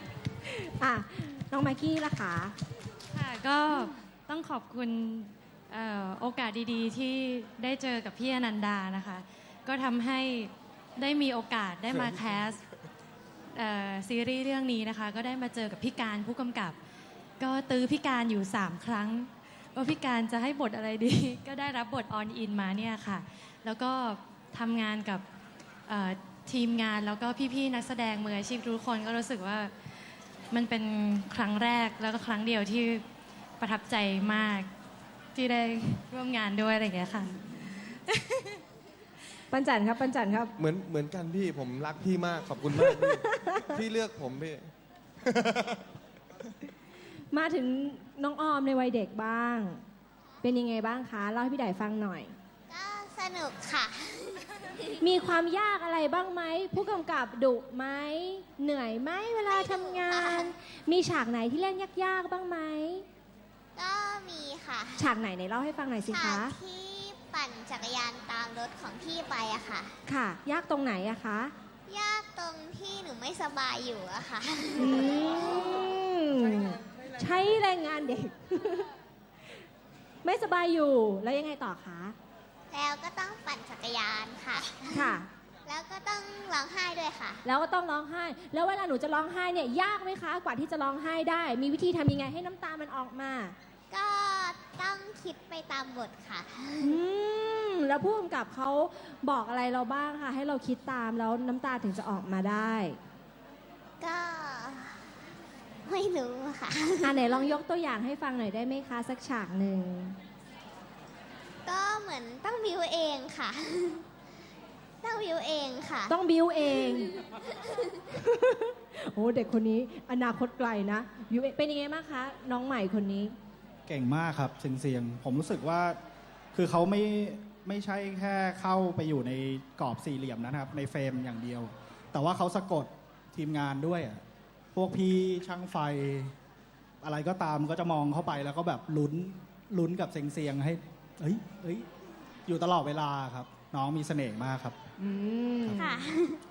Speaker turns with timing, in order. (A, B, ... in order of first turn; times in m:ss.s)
0:00.5-0:02.5 A
0:03.1-0:12.6 B
0:13.5-0:16.8 B
0:17.4-0:25.2 B
0:25.9-0:29.7 B
0:30.5-0:33.0 B
0:33.6-0:34.7 B
0:35.3-0:38.6 B
0:39.5-0:40.5 A
0:40.6-0:44.7 C
0:42.7-0:43.6 A
0:45.2-0:45.8 C
0:47.3-0:49.8 A
0:50.4-0:52.3 A
0:52.7-0:55.0 D
0:55.0-1:03.0 A
0:59.5-1:00.5 D
1:03.7-1:05.1 D
1:05.0-1:06.6 A
1:06.0-1:09.9 D
1:10.1-1:11.5 A
1:11.9-1:15.6 D
1:14.8-1:18.9 A
1:20.2-1:22.2 A
1:22.7-1:27.4 D
1:24.9-1:25.3 A
1:27.4-1:33.6 A
1:33.9-1:37.0 D
1:36.8-1:43.0 A
1:44.0-1:45.0 D
1:45.8-1:47.4 D
1:47.0-1:50.2 A
1:51.6-1:54.0 D
1:55.0-1:56.1 D
1:56.1-1:57.2 A
1:58.1-2:03.4 A
2:03.9-2:06.0 E
2:06.5-2:14.2 E
2:14.7-2:16.3 E
2:17.0-2:21.9 E
2:22.5-2:24.8 E
2:25.0-2:26.0 A
2:25.8-2:26.4 D